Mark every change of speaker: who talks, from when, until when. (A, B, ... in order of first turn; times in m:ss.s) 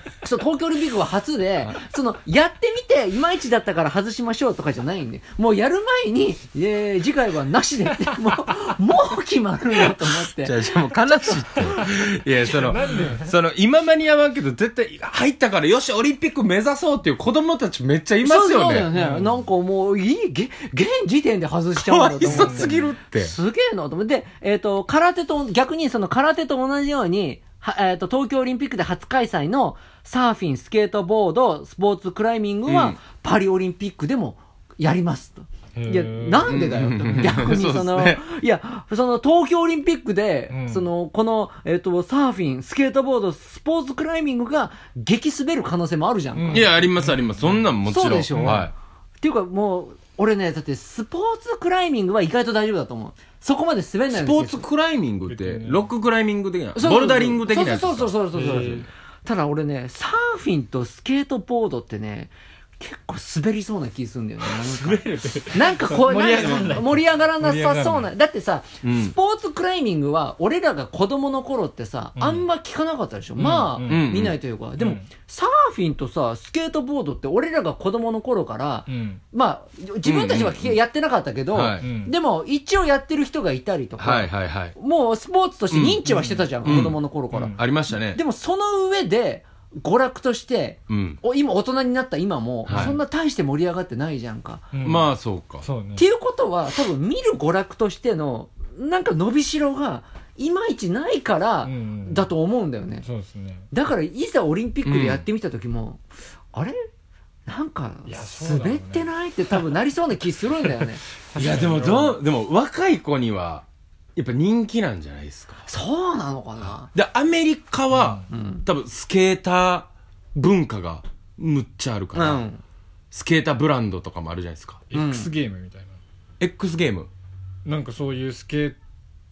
0:00.2-0:10.6 A
0:10.4-0:18.9 B
0:11.4-0:11.9 C
0:12.4-0:13.3 C
0:18.2-0:46.7 A
0:19.0-0:19.4 C
0:21.8-0:23.4 B
0:22.2-0:22.8 C
0:32.7-0:33.0 B
0:35.8-0:36.6 C
0:36.5-0:38.2 B
0:40.5-0:40.9 C
0:46.4-0:47.6 C
0:46.5-0:48.7 B
0:47.9-0:48.7 A
0:48.4-0:48.7 C
0:49.2-0:54.6 A
0:54.1-0:58.9 B
0:55.3-0:55.9 C
0:56.8-1:27.6 A
0:58.3-0:58.9 C
1:04.4-1:05.8 B
1:05.8-1:08.1 C
1:06.3-1:06.7 B
1:08.8-1:09.1 B
1:12.2-1:12.4 C
1:13.4-1:14.0 C
1:13.9-1:14.4 B
1:14.8-1:15.1 C
1:18.9-1:19.2 C
1:20.0-1:20.8 B
1:21.5-1:21.9 B
1:21.8-1:22.1 C
1:24.0-1:24.8 B
1:25.7-1:26.0 B
1:26.0-1:27.6 C
1:26.6-1:27.0 B
1:27.6-1:28.2 B
1:28.1-1:34.7 A
1:30.9-1:31.2 B
1:32.7-1:33.0 B
1:32.7-1:33.0 C
1:34.7-1:35.1 C
1:34.8-1:35.6 B
1:35.6-1:36.1 C
1:36.0-1:43.1 A
1:41.6-1:42.3 C
1:43.0-1:43.7 C
1:43.7-1:46.8 A
1:44.8-1:45.2 B
1:47.5-1:51.0 A
1:48.1-1:49.6 C
1:51.3-1:52.2 C
1:51.4-1:53.6 B
1:54.2-1:55.7 B
1:55.7-1:56.9 A
1:56.9-2:02.4 B
1:57.9-1:58.2 C
1:58.3-1:58.6 A
2:02.1-2:02.6 A
2:03.1-2:04.8 B
2:04.9-2:06.0 C
2:04.9-2:05.3 A
2:06.4-2:07.1 B
2:07.6-2:08.8 C